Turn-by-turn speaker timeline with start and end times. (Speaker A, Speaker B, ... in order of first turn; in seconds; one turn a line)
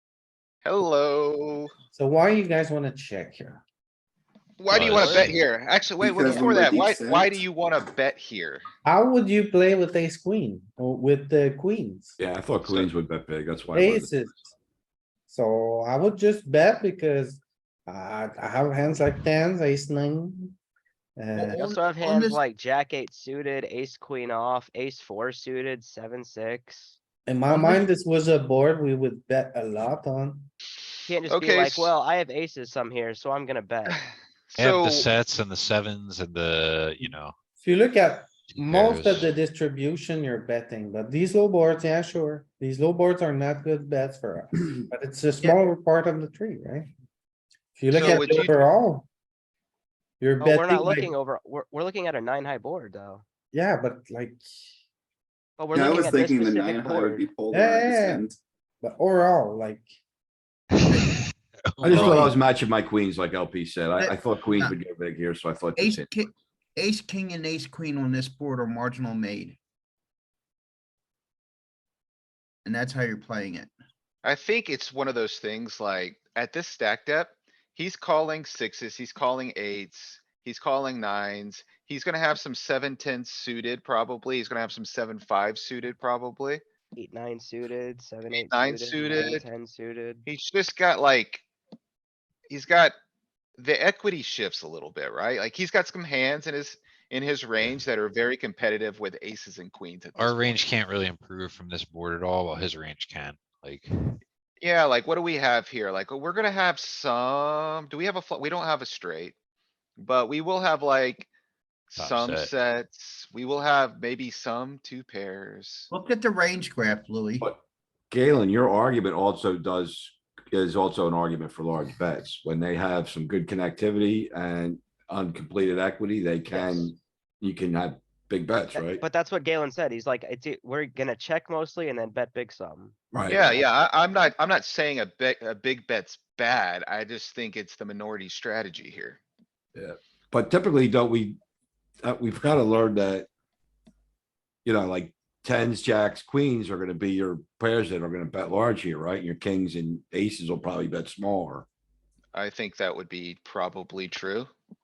Speaker A: 0.6-1.7
Speaker B: 1.9-3.6
Speaker A: 4.6-8.7
Speaker C: 4.7-5.4
Speaker D: 6.0-7.4
Speaker B: 8.8-12.2
Speaker E: 12.2-14.1
Speaker B: 13.7-14.5
Speaker B: 15.3-20.6
Speaker B: 21.2-21.6
Speaker F: 21.4-22.4
Speaker G: 21.6-26.9
Speaker B: 27.3-30.5
Speaker F: 27.5-27.9
Speaker G: 31.1-34.0
Speaker A: 31.3-31.9
Speaker A: 33.9-35.1
Speaker C: 34.6-37.3
Speaker B: 37.6-46.9
Speaker C: 38.5-39.3
Speaker B: 47.8-49.1
Speaker A: 47.9-48.6
Speaker B: 50.2-51.1
Speaker G: 50.4-53.2
Speaker B: 53.5-54.5
Speaker G: 55.6-57.3
Speaker D: 55.7-58.4
Speaker B: 57.5-58.2
Speaker B: 58.8-60.0
Speaker C: 60.7-62.3
Speaker F: 60.9-61.1
Speaker E: 61.8-66.1
Speaker B: 61.9-62.3
Speaker F: 64.0-64.8
Speaker F: 65.8-69.6
Speaker F: 72.6-73.7
Speaker A: 74.2-86.6
Speaker G: 87.0-90.3
Speaker A: 88.3-89.4
Speaker A: 90.2-91.4
Speaker A: 92.5-93.0
Speaker A: 93.6-100.6
Speaker C: 100.2-104.2
Speaker A: 104.6-109.3
Speaker A: 110.0-111.3
Speaker A: 111.9-115.9
Speaker C: 112.0-112.5
Speaker F: 115.9-117.5
Speaker E: 117.4-129.0
Speaker G: 126.5-126.9
Speaker G: 128.7-133.7
Speaker E: 133.1-133.6
Speaker A: 133.3-139.2
Speaker E: 139.8-141.4
Speaker E: 142.0-143.3
Speaker E: 144.7-151.7
Speaker A: 152.3-154.5